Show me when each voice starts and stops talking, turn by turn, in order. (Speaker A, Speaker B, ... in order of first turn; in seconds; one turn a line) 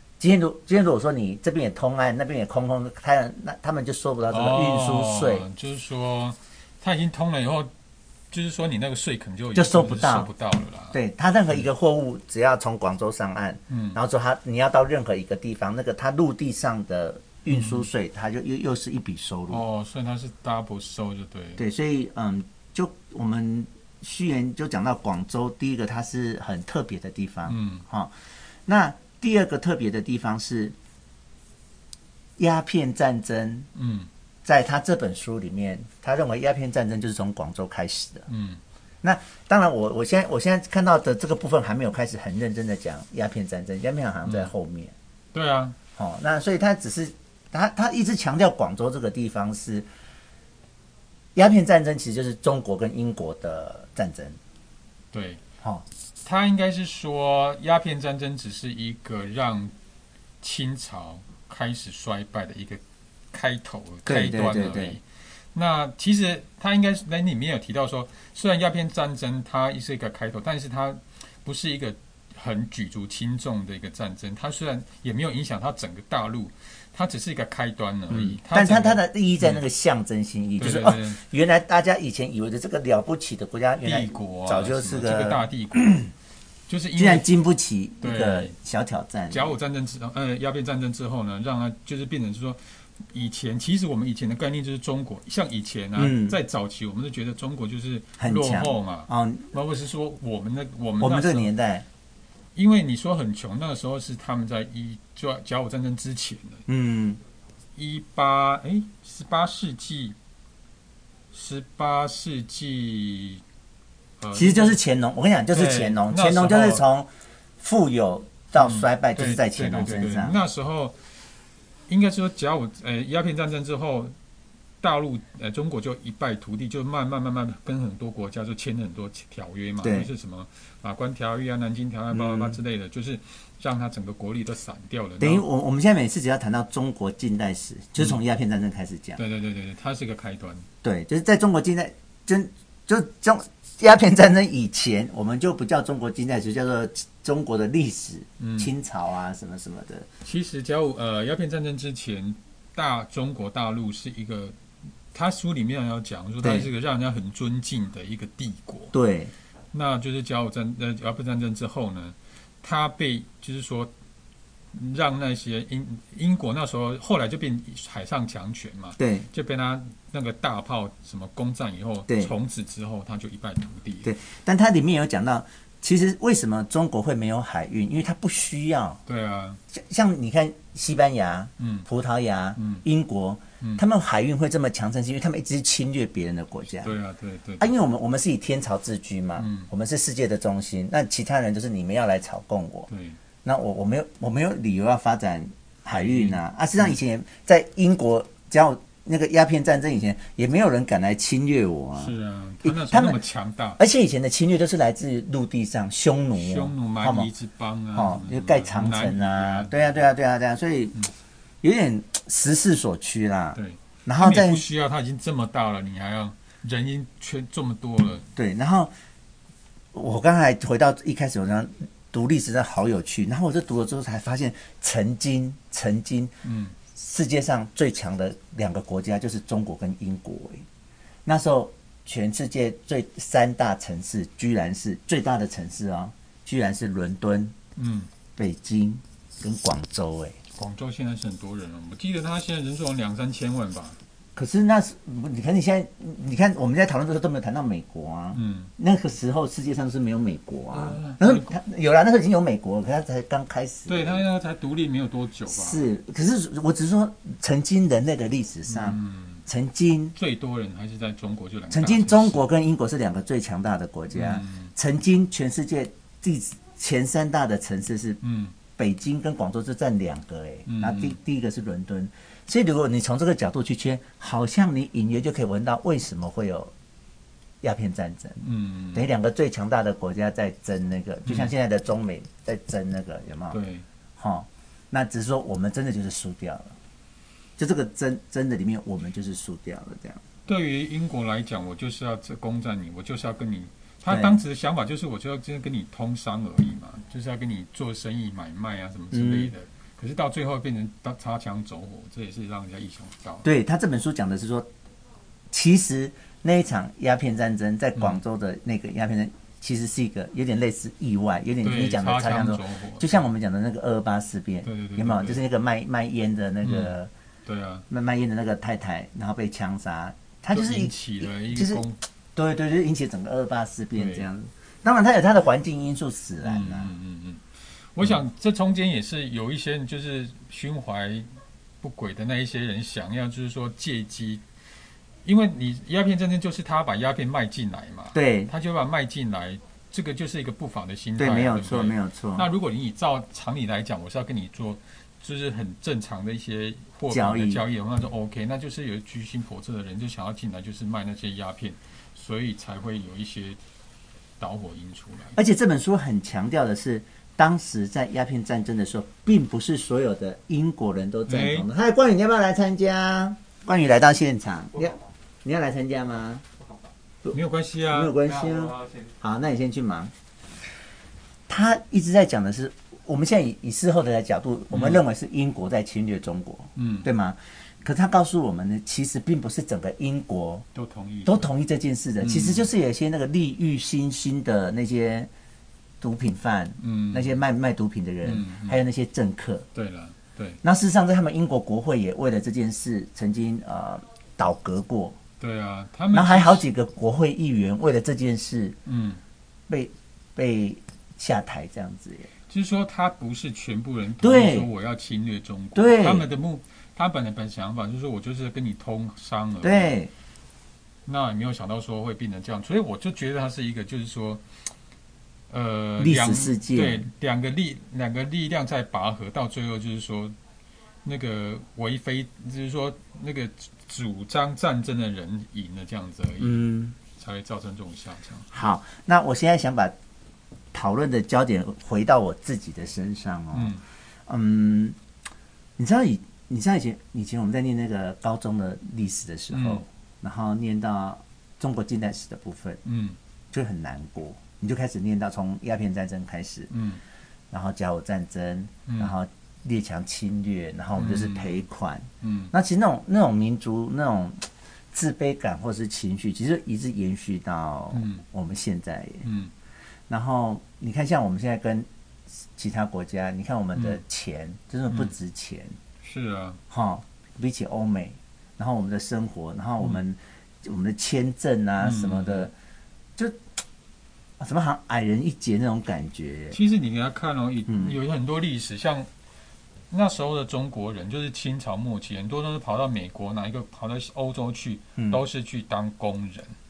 Speaker A: 0.2-5.5
Speaker B: 4.3-7.7
Speaker B: 8.3-11.0
Speaker A: 9.5-10.3
Speaker A: 10.9-19.6
Speaker B: 13.7-14.0
Speaker B: 17.5-17.9
Speaker B: 19.5-21.6
Speaker A: 21.6-28.1
Speaker B: 27.5-27.8
Speaker A: 28.6-30.7
Speaker A: 32.4-33.7
Speaker B: 33.7-34.1
Speaker A: 34.4-38.3
Speaker B: 38.3-38.6
Speaker A: 39.0-44.9
Speaker B: 44.2-44.5
Speaker B: 45.3-45.8
Speaker A: 46.0-49.9
Speaker A: 51.3-54.4
Speaker B: 55.1-55.4
Speaker B: 56.2-59.7
Speaker B: 60.4-79.6
Speaker A: 64.0-65.0
Speaker A: 78.1-86.1
Speaker B: 80.6-81.2
Speaker B: 83.8-86.0
Speaker B: 86.7-87.3
Speaker A: 87.0-89.5
Speaker B: 88.0-88.5
Speaker B: 89.3-101.5
Speaker A: 96.0-96.4
Speaker A: 98.2-99.5
Speaker A: 101.0-101.8
Speaker B: 102.5-106.6
Speaker A: 106.7-107.2
Speaker B: 107.8-110.2
Speaker B: 111.3-113.4
Speaker B: 114.2-114.8
Speaker A: 114.3-117.1
Speaker B: 115.5-116.8
Speaker A: 117.6-120.4
Speaker B: 118.6-121.0
Speaker B: 121.9-124.1
Speaker B: 124.8-135.4
Speaker A: 129.8-130.1
Speaker A: 132.1-132.6
Speaker A: 135.2-139.2
Speaker B: 139.2-140.7
Speaker A: 140.8-150.1
Speaker B: 148.4-148.7
Speaker B: 150.2-154.6
Speaker B: 155.1-158.9
Speaker A: 156.4-156.7
Speaker A: 158.9-159.3
Speaker B: 159.7-163.9
Speaker B: 164.7-174.1
Speaker A: 169.0-169.3
Speaker A: 174.0-179.0
Speaker B: 179.1-179.6
Speaker A: 179.7-186.9
Speaker B: 181.6-181.9
Speaker B: 182.6-182.8
Speaker B: 186.8-187.7
Speaker A: 187.6-192.9
Speaker B: 189.4-189.7
Speaker B: 192.9-193.2
Speaker A: 193.4-202.1
Speaker B: 195.9-196.9
Speaker B: 201.9-203.8
Speaker A: 202.6-203.2
Speaker A: 203.8-207.3
Speaker B: 206.3-210.0
Speaker A: 207.9-211.0
Speaker A: 211.6-214.6
Speaker B: 213.5-218.2
Speaker A: 218.3-218.9
Speaker A: 219.9-226.3
Speaker B: 226.4-226.8
Speaker A: 226.9-230.6
Speaker A: 231.2-237.5
Speaker B: 237.8-238.1
Speaker A: 238.3-240.4
Speaker B: 240.5-244.0
Speaker A: 244.3-254.2
Speaker B: 248.3-248.7
Speaker B: 250.7-251.6
Speaker B: 253.9-255.9
Speaker A: 255.5-260.1
Speaker B: 258.7-259.4
Speaker B: 260.1-262.4
Speaker A: 261.7-268.2
Speaker B: 264.1-264.7
Speaker B: 268.2-268.6
Speaker A: 268.8-276.7
Speaker B: 270.7-271.1
Speaker A: 277.6-278.4
Speaker B: 278.4-279.1
Speaker A: 278.9-283.6
Speaker B: 281.2-281.5
Speaker B: 283.5-283.9
Speaker A: 284.2-286.7
Speaker A: 287.6-290.2
Speaker B: 290.4-303.4
Speaker A: 294.1-294.4
Speaker A: 299.1-299.5
Speaker A: 303.4-304.7
Speaker A: 305.5-317.1
Speaker B: 311.6-313.3
Speaker B: 314.6-315.4
Speaker B: 316.6-316.9
Speaker B: 317.4-317.9
Speaker A: 317.9-321.8
Speaker B: 320.5-322.0
Speaker A: 322.3-326.9
Speaker B: 323.9-324.3
Speaker B: 326.4-331.3
Speaker B: 331.8-334.4
Speaker B: 335.2-353.6
Speaker A: 338.1-338.5
Speaker A: 341.2-342.4
Speaker A: 347.1-347.6
Speaker B: 354.4-355.4
Speaker A: 355.3-366.4
Speaker B: 361.3-361.7
Speaker B: 367.3-368.8
Speaker A: 367.9-370.1
Speaker A: 371.5-380.6
Speaker B: 374.7-375.0
Speaker B: 376.8-377.1
Speaker B: 380.7-381.5
Speaker A: 381.2-385.3
Speaker B: 382.2-382.7
Speaker A: 386.0-389.6
Speaker B: 386.8-387.4
Speaker B: 388.2-388.8
Speaker B: 389.7-390.6
Speaker A: 390.6-395.1
Speaker B: 395.4-396.6
Speaker A: 396.1-398.8
Speaker B: 398.8-399.2
Speaker A: 399.7-402.3
Speaker B: 402.5-409.9
Speaker A: 404.2-404.7
Speaker A: 405.7-406.3
Speaker A: 409.6-410.1
Speaker B: 411.1-414.4
Speaker B: 415.5-420.4
Speaker A: 416.0-417.1
Speaker B: 421.0-428.5
Speaker A: 426.4-426.9
Speaker A: 428.5-429.9
Speaker A: 430.7-433.8
Speaker B: 433.5-433.8
Speaker A: 434.3-434.9
Speaker A: 435.8-442.8
Speaker B: 439.5-439.8
Speaker B: 442.8-443.2
Speaker A: 443.5-446.7
Speaker B: 446.7-447.0
Speaker A: 447.5-459.2
Speaker B: 448.9-449.1
Speaker B: 450.9-451.5
Speaker B: 452.2-452.5
Speaker B: 457.9-458.2
Speaker B: 459.2-459.5
Speaker A: 460.1-461.9
Speaker A: 462.6-465.8
Speaker B: 463.7-464.0
Speaker B: 466.0-466.6
Speaker A: 466.7-472.5
Speaker B: 471.8-472.5
Speaker A: 474.4-476.6
Speaker B: 476.5-479.1
Speaker A: 477.7-477.9
Speaker B: 479.9-486.5
Speaker A: 485.0-485.2